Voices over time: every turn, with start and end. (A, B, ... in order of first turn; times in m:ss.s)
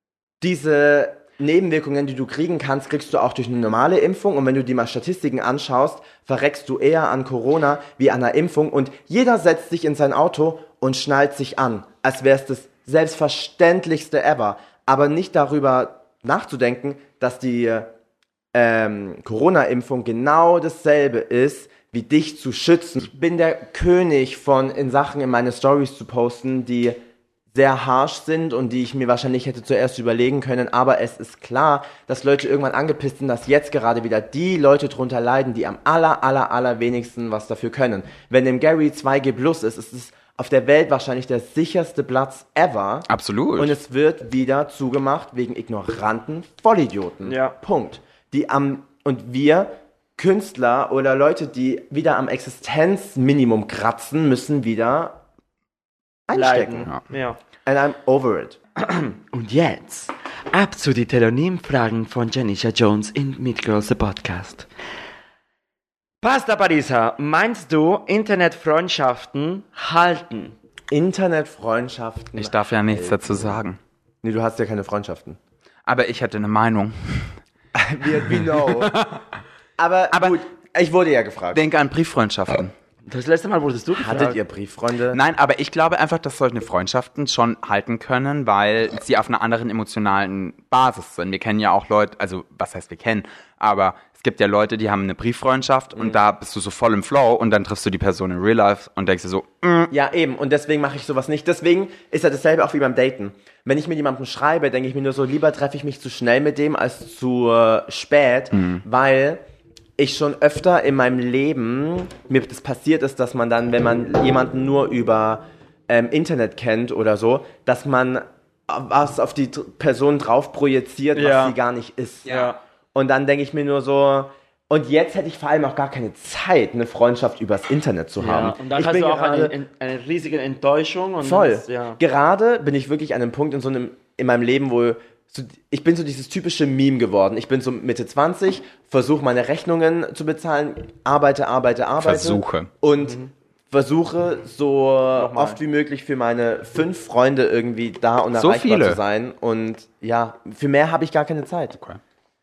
0:00.4-0:17.9 A
0:18.5-0:27.0 A
0:27.5-0:55.2 A
0:43.1-0:43.7 B
0:47.2-0:47.6 C
0:56.3-0:56.9 A
0:56.3-0:57.4 C
0:57.6-0:58.6 A
0:58.8-1:04.7 C
1:06.2-1:10.6 C
1:10.9-1:13.6 A
1:12.4-1:13.8 B
1:14.2-1:15.4 A
1:15.8-1:17.4 B
1:17.7-1:18.9 A
1:18.3-1:19.2 B
1:19.8-1:21.6 A
1:20.1-1:20.4 B
1:21.5-1:22.7 B
1:23.0-1:24.4 C
1:24.0-1:25.2 A
1:25.1-1:39.9 B
1:39.9-1:49.4 A
1:48.5-1:48.8 B
1:50.0-2:02.4 A
2:01.1-2:01.6 C
2:02.2-2:02.6 C
2:02.9-2:09.5 A
2:08.2-2:12.0 C
2:11.2-2:31.8 A
2:22.0-2:22.7 B
2:25.2-2:25.6 C
2:28.4-2:29.0 B